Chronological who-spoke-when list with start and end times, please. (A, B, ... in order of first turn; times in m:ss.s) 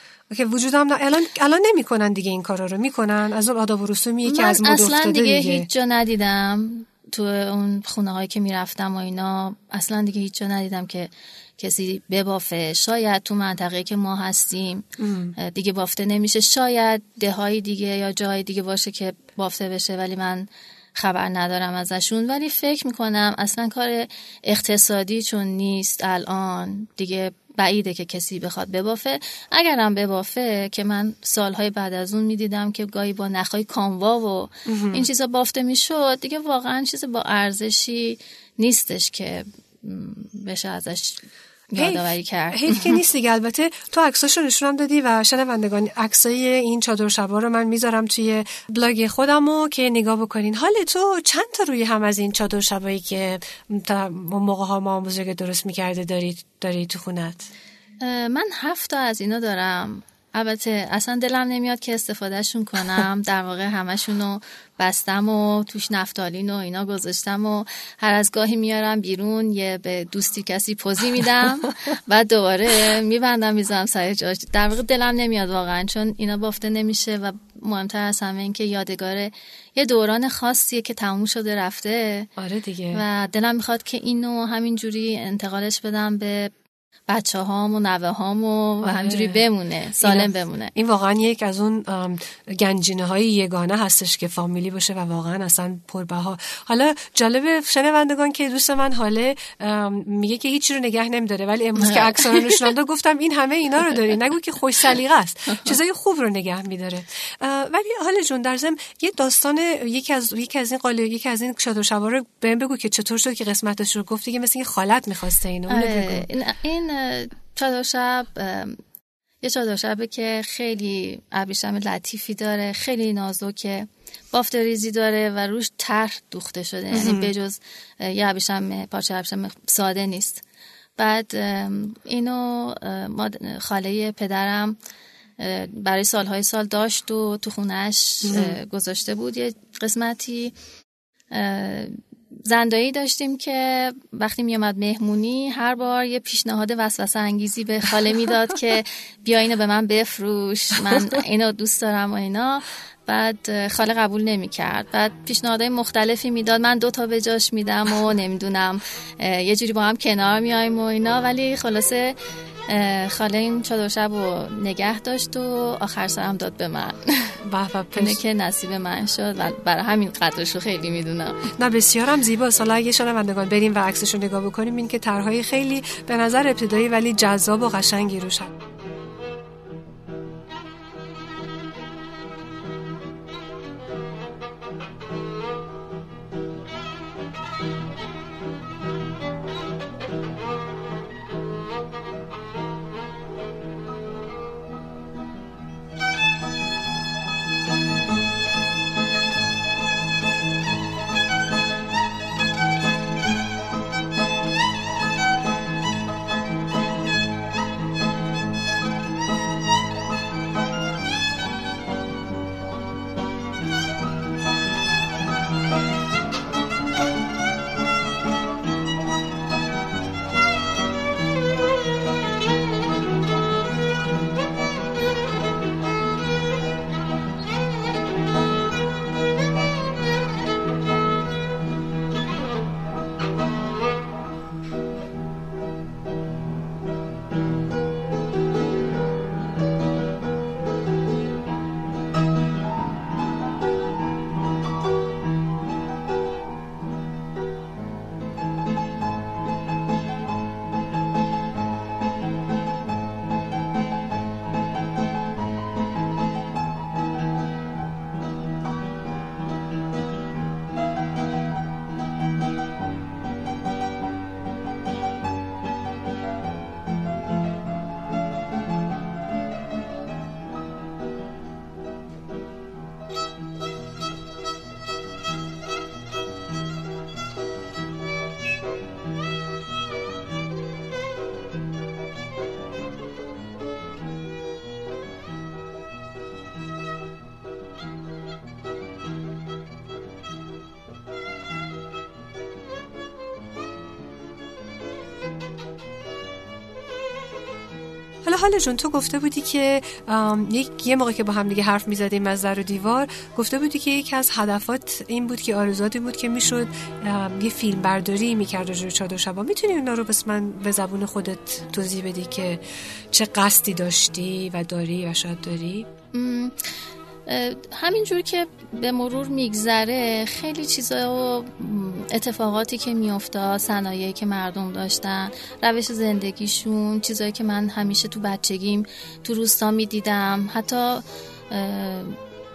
0:00.3-0:05.7 A
0:04.2-0:43.0 B
0:15.0-0:15.4 A
0:34.7-0:35.1 A
0:41.8-0:57.5 A
0:58.0-1:22.3 B
1:22.4-1:23.0 A
1:22.9-1:26.5 B
1:27.1-1:30.7 B
1:28.8-1:29.4 A
1:30.0-1:56.3 A
1:41.8-1:42.6 B
1:55.7-1:58.8 B
1:59.4-2:10.4 B
2:06.9-2:07.3 A
2:11.0-2:14.8 B
2:15.4-2:20.6 B
2:18.2-2:18.6 A
2:21.3-2:42.2 B
2:42.7-2:47.4 B
2:47.4-2:48.2 A
2:47.9-2:51.5 B
2:51.6-2:58.5 A
4:58.2-5:15.9 A
5:16.1-5:16.6 B
5:17.3-5:32.2 B